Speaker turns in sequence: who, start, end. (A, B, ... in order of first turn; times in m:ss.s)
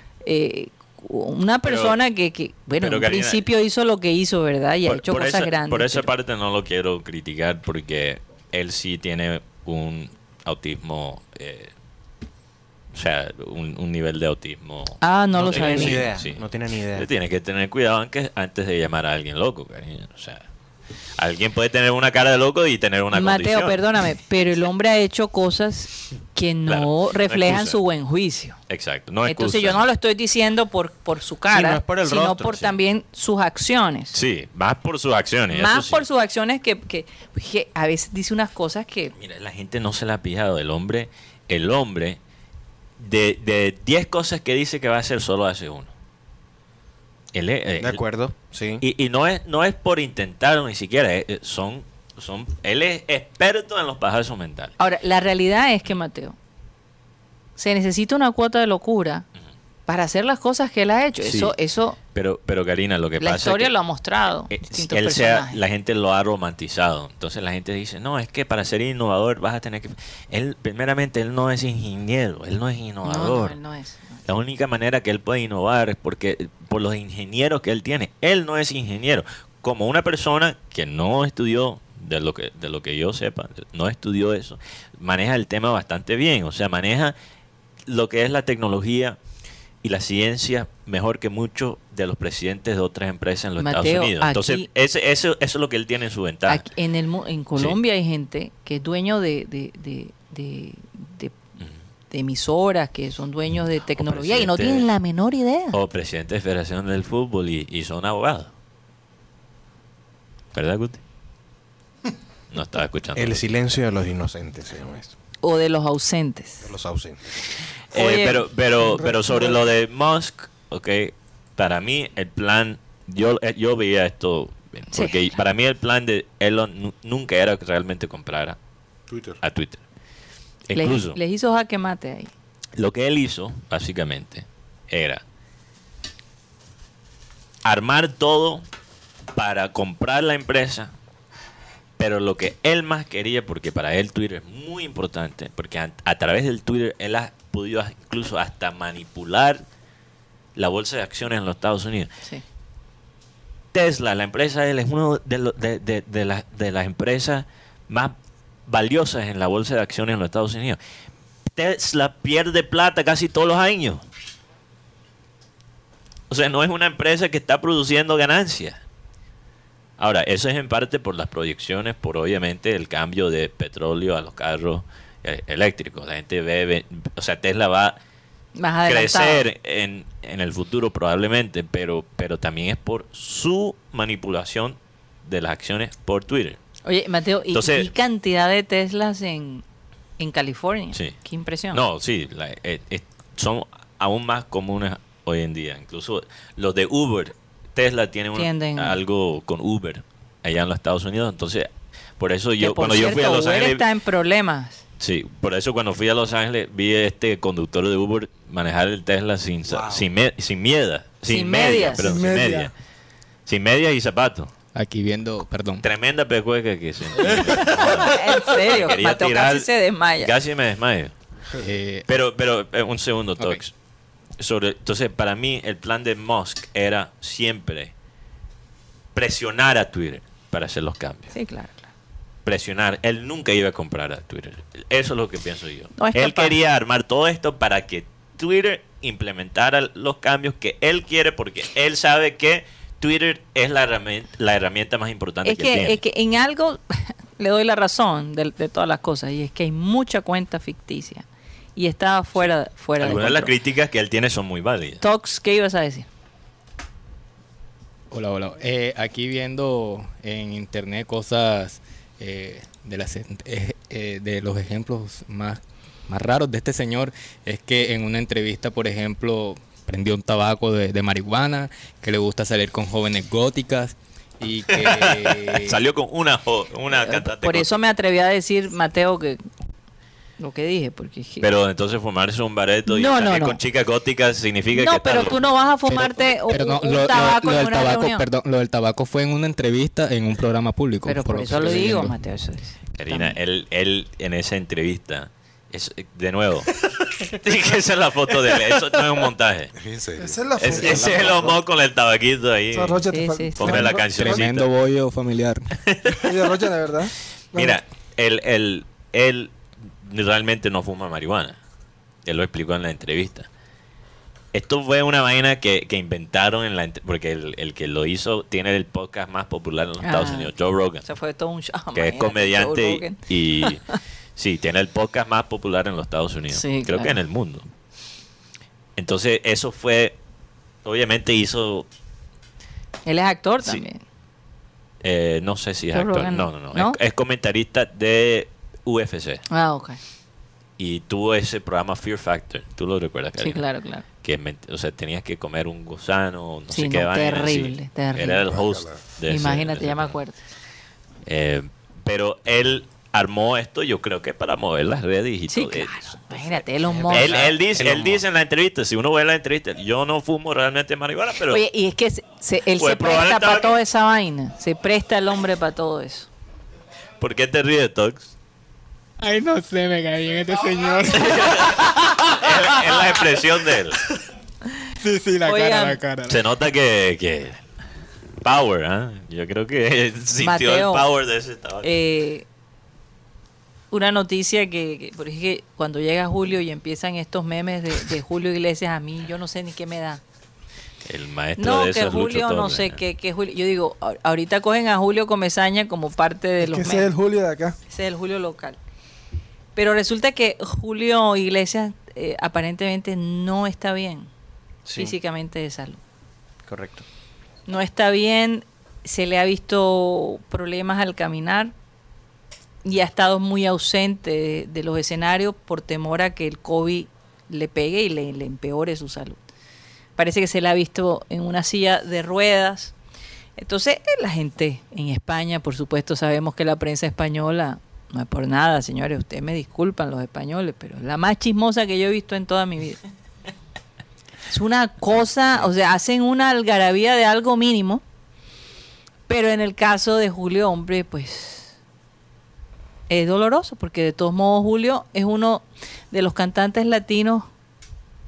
0:00.2-0:06.1 A
0:01.6-0:02.0 B
0:02.8-0:03.4 B
0:04.9-0:11.7 B
0:12.9-0:16.4 B
0:15.0-0:16.1 A
0:15.4-0:17.1 C
0:17.0-0:20.4 B
0:21.2-0:23.8 B
0:23.1-0:28.6 A
0:26.7-0:27.8 B
0:28.7-0:29.8 B
0:29.3-0:34.2 A
0:31.5-0:32.7 C
0:34.1-0:36.0 B
0:35.5-0:39.1 A
0:39.2-0:42.2 B
0:43.0-0:45.9 B
0:47.3-0:48.0 B
0:47.8-0:48.8 C
0:48.8-0:54.7 B
0:54.8-0:56.4 A
0:57.6-0:59.2 A
0:59.9-1:02.0 A
1:01.2-1:01.5 B
1:02.1-1:03.7 B
1:03.2-1:05.6 A
1:04.5-1:13.6 B
1:13.0-1:14.2 A
1:14.3-1:27.2 B
1:27.9-1:29.2 B
1:29.8-1:36.7 B
1:33.6-1:34.7 A
1:36.5-1:41.3 A
1:42.1-1:45.8 A
1:44.0-1:44.9 B
1:45.7-1:48.5 B
1:50.5-1:51.0 B
1:52.5-1:53.4 B
1:53.2-1:55.1 C
1:55.4-1:56.6 A
1:56.6-1:57.3 C
1:57.9-2:08.6 B
1:57.9-1:58.4 A
1:59.0-1:59.5 D
2:04.9-2:05.4 A
2:09.1-2:09.4 E
2:09.4-2:09.8 B
2:10.7-2:11.2 B
2:10.8-2:12.3 A
2:12.8-2:15.2 B
2:17.6-2:18.6 B
2:19.4-2:20.9 B
2:22.0-2:29.6 B
2:30.6-2:32.1 B
2:33.7-2:38.1 B
2:38.7-2:40.8 B
2:41.5-2:44.0 B
2:46.3-2:48.8 B
2:50.0-2:58.0 B
2:58.6-2:59.5 A
2:58.9-3:06.6 B
3:06.9-3:09.6 A
3:07.5-3:07.9 B
3:10.2-3:11.8 A
3:11.7-3:23.8 B
3:18.4-3:19.0 A
3:22.6-3:24.8 A
3:25.0-3:32.7 B
3:31.3-3:32.1 A
3:32.0-3:32.7 D
3:33.5-3:34.5 B
3:34.8-3:35.9 F
3:35.8-3:41.1 B
3:37.4-3:37.7 F
3:37.8-3:40.3 A
3:41.6-3:42.1 F
3:42.1-3:43.7 B
3:44.4-3:47.9 B
3:49.2-3:51.3 B
3:51.3-3:51.9 A
3:52.4-4:06.0 B
3:56.0-3:56.5 A
4:05.4-4:11.2 A
4:11.8-4:13.5 A
4:13.0-4:15.0 B
4:15.0-4:16.1 A
4:18.1-4:35.8 F
4:34.7-4:37.7 B
4:36.9-4:39.4 A
4:40.4-4:41.5 A
4:41.4-4:45.4 B
4:42.9-4:43.6 A
4:44.7-4:48.2 A
4:45.9-4:52.2 F
4:51.1-4:53.4 A
4:53.0-4:59.7 B
4:59.8-5:01.6 E
5:00.2-5:01.5 D
5:00.6-5:03.0 B
5:02.7-5:04.5 D
5:03.1-5:03.9 A
5:03.6-5:04.7 B
5:04.1-5:05.7 F
5:05.8-5:06.3 B
5:06.2-5:07.8 D
5:07.5-5:11.6 B
5:12.3-5:13.5 B
5:14.5-5:21.0 B
5:20.0-5:20.5 A
5:21.0-5:24.0 A
5:21.9-5:23.8 B
5:24.4-5:27.7 B
5:26.5-5:27.2 A
5:29.0-5:30.2 B
5:30.8-5:31.9 B
5:33.1-5:34.0 A
5:35.0-5:39.4 B
5:35.9-5:37.0 A
5:39.5-5:40.0 A
5:40.8-5:43.6 B
5:43.4-5:44.0 A
5:44.2-5:50.2 B
5:46.7-5:48.4 A
5:48.5-5:49.0 E
5:49.3-5:50.4 A
5:51.3-5:56.4 B
5:55.5-5:57.4 A
5:56.8-5:58.2 C
5:57.1-6:01.6 B
6:01.5-6:06.3 A
6:02.8-6:03.8 B
6:07.2-6:08.3 B
6:09.2-6:13.0 F
6:11.2-6:14.0 B
6:15.0-6:16.4 F
6:15.4-6:16.0 A
6:16.3-6:17.6 B
6:18.4-6:21.9 B
6:20.4-6:21.1 A
6:21.8-6:22.4 A
6:23.9-6:30.2 A
6:31.0-6:33.0 B
6:31.6-6:37.1 A
6:36.6-6:37.8 D
6:37.9-6:38.8 A
6:39.8-6:44.3 A
6:44.9-6:45.1 C
6:45.0-6:46.0 A
6:46.7-6:47.0 C
6:47.7-6:51.7 A
6:52.8-6:59.4 A
7:00.2-7:02.9 A
7:03.6-7:13.0 A
7:14.5-7:18.0 A
7:19.3-7:21.7 A
7:23.1-7:27.5 A